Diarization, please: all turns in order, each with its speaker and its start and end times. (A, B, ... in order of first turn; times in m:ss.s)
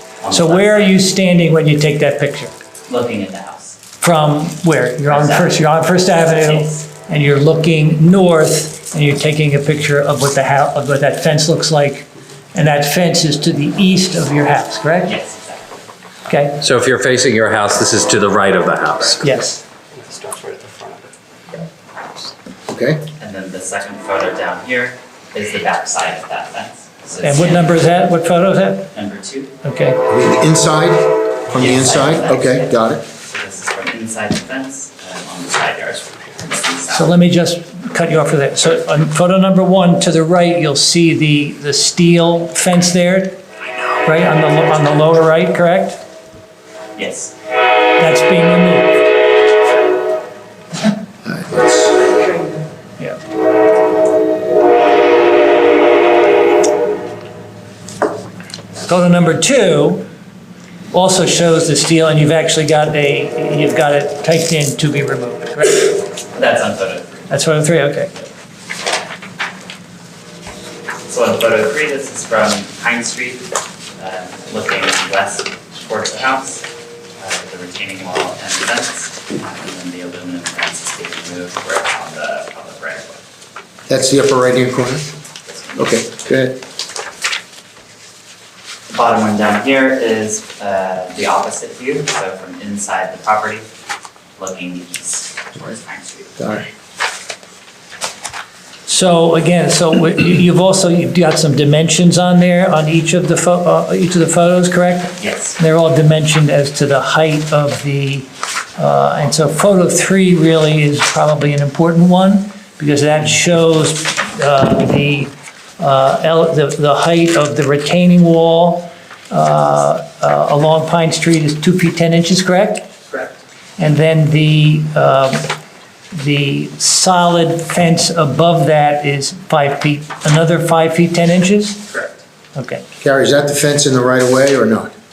0:00.2-0:01.0 A
0:00.3-0:02.5 B
0:02.9-0:03.8 A
0:04.0-0:15.1 B
0:05.1-0:06.8 A
0:15.0-0:15.9 A
0:16.3-0:16.6 B
0:16.6-0:19.2 C
0:19.2-0:19.6 B
0:19.9-0:22.3 D
0:22.7-0:23.0 E
0:23.2-0:27.9 A
0:27.2-0:28.9 B
0:28.9-0:29.5 A
0:29.6-0:30.0 B
0:30.1-0:33.0 E
0:31.6-0:37.2 A
0:36.9-0:43.4 B
0:44.0-0:46.0 B
0:47.0-0:47.3 A
0:48.0-0:49.0 B
0:51.2-0:52.2 E
0:58.9-1:00.1 B
1:00.9-1:05.9 B
1:06.3-1:08.3 A
1:07.3-1:08.1 B
1:11.1-1:16.7 A
1:17.2-1:23.2 A
1:23.9-1:25.1 E
1:25.5-1:26.1 A
1:25.8-1:26.6 E
1:28.9-1:33.7 A
1:34.4-1:36.6 A
1:36.4-1:36.7 E
1:38.9-2:02.9 B
1:45.2-1:45.6 A
2:03.1-2:03.4 A
2:03.8-2:05.5 B
2:06.1-2:11.9 B
2:11.9-2:12.2 A
2:12.6-2:12.8 B
2:13.0-2:14.9 E